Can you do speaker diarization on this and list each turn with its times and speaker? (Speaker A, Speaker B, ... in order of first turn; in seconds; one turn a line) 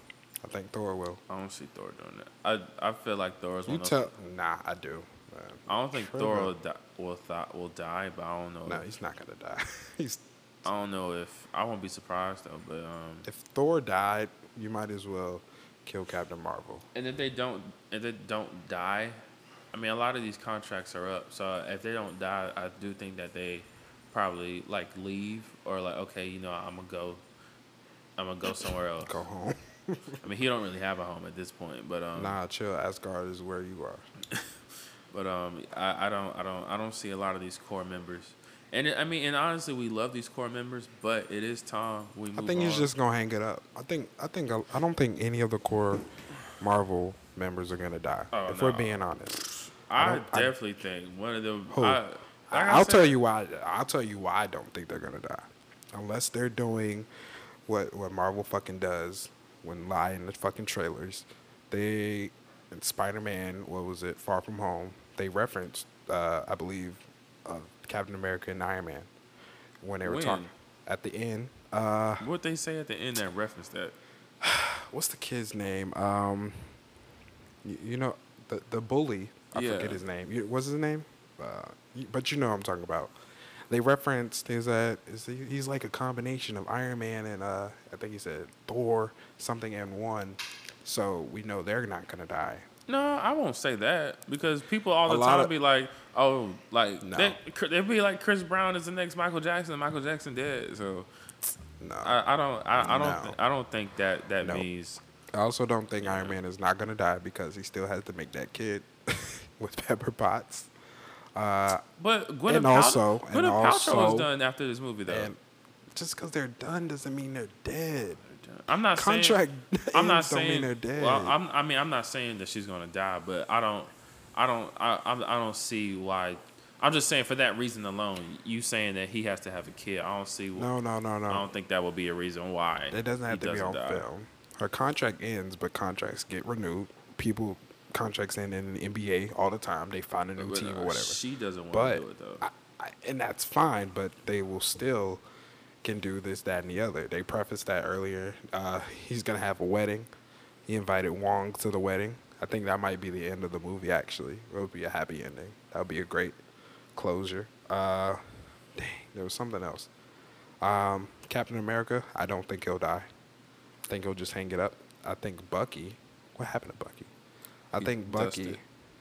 Speaker A: 0.4-1.2
Speaker B: 1.3-4.1
Speaker A: 3.7-6.5
Speaker B: 5.7-8.8
Speaker A: 8.7-10.2
Speaker B: 10.6-13.3
Speaker A: 13.2-16.8
Speaker B: 16.9-19.2
Speaker B: 19.7-27.2
Speaker B: 28.2-29.2
Speaker A: 29.0-30.2
Speaker B: 30.2-32.4
Speaker A: 32.1-34.0
Speaker B: 35.1-42.9
Speaker A: 42.3-46.0
Speaker A: 46.6-50.5
Speaker B: 48.3-49.0
Speaker B: 49.9-53.1
Speaker A: 51.7-57.1
Speaker A: 57.6-69.1
Speaker A: 69.8-72.3
Speaker B: 70.0-70.5
Speaker B: 72.2-74.0
Speaker A: 74.4-76.8
Speaker A: 77.6-83.1
Speaker B: 79.5-80.0
Speaker A: 83.7-92.7
Speaker B: 92.9-101.1
Speaker A: 95.1-95.5
Speaker A: 97.0-97.4
Speaker A: 101.8-102.2
Speaker B: 102.0-105.0
Speaker A: 102.8-103.4
Speaker A: 105.3-110.7
Speaker B: 106.0-106.4
Speaker A: 111.3-111.8
Speaker B: 112.0-115.3
Speaker A: 112.5-114.3
Speaker A: 115.1-115.4
Speaker A: 115.9-118.2
Speaker B: 118.3-119.4
Speaker A: 118.9-121.4
Speaker B: 119.9-130.7
Speaker A: 130.5-131.5
Speaker B: 131.3-134.1
Speaker A: 132.9-141.2
Speaker B: 140.4-142.5
Speaker A: 141.7-145.2
Speaker A: 145.8-150.1
Speaker A: 150.7-156.4
Speaker A: 156.9-158.2
Speaker A: 158.7-159.9
Speaker A: 160.6-163.1
Speaker A: 163.9-167.1
Speaker A: 167.7-168.6
Speaker B: 167.8-168.6